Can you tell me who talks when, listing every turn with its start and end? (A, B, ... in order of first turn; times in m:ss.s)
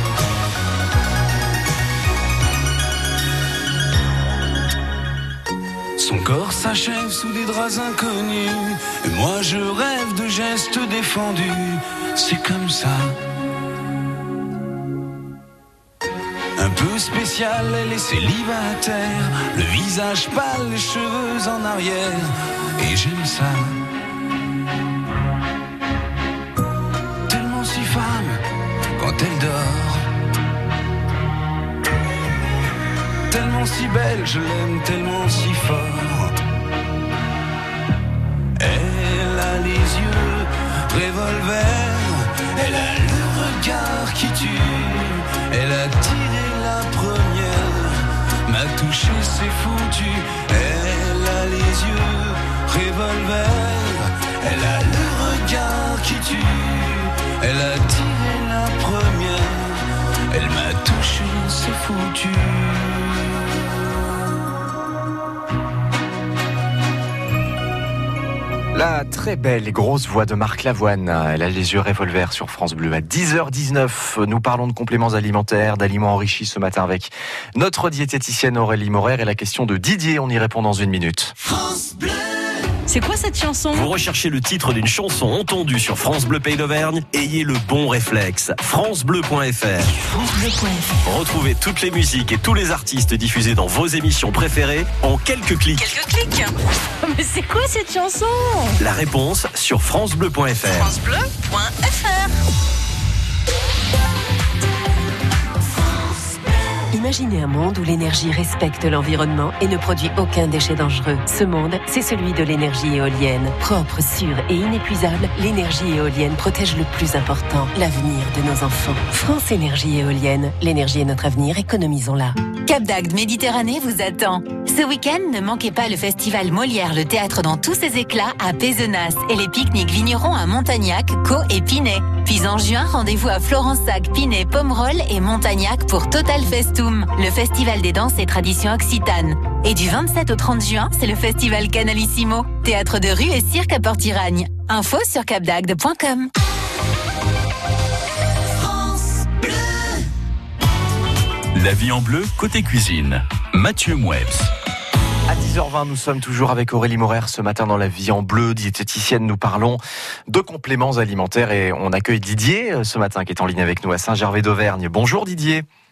0:06.0-0:13.1 A
0:16.6-0:23.8 A
0:27.3-0:28.4 A
0:29.0-0:30.1 A
0:33.3-0:36.3 A
0:38.6-1:03.4 A
1:08.7-1:21.3 B
1:22.9-1:23.9 C
1:23.7-1:30.0 D
1:30.0-1:31.0 C
1:31.0-1:36.0 D
1:35.8-1:38.8 C
1:38.8-1:40.9 D
1:40.7-1:42.4 C
1:46.9-2:02.4 E
2:02.6-2:26.3 F
2:31.5-2:34.5 G
2:35.3-2:45.7 B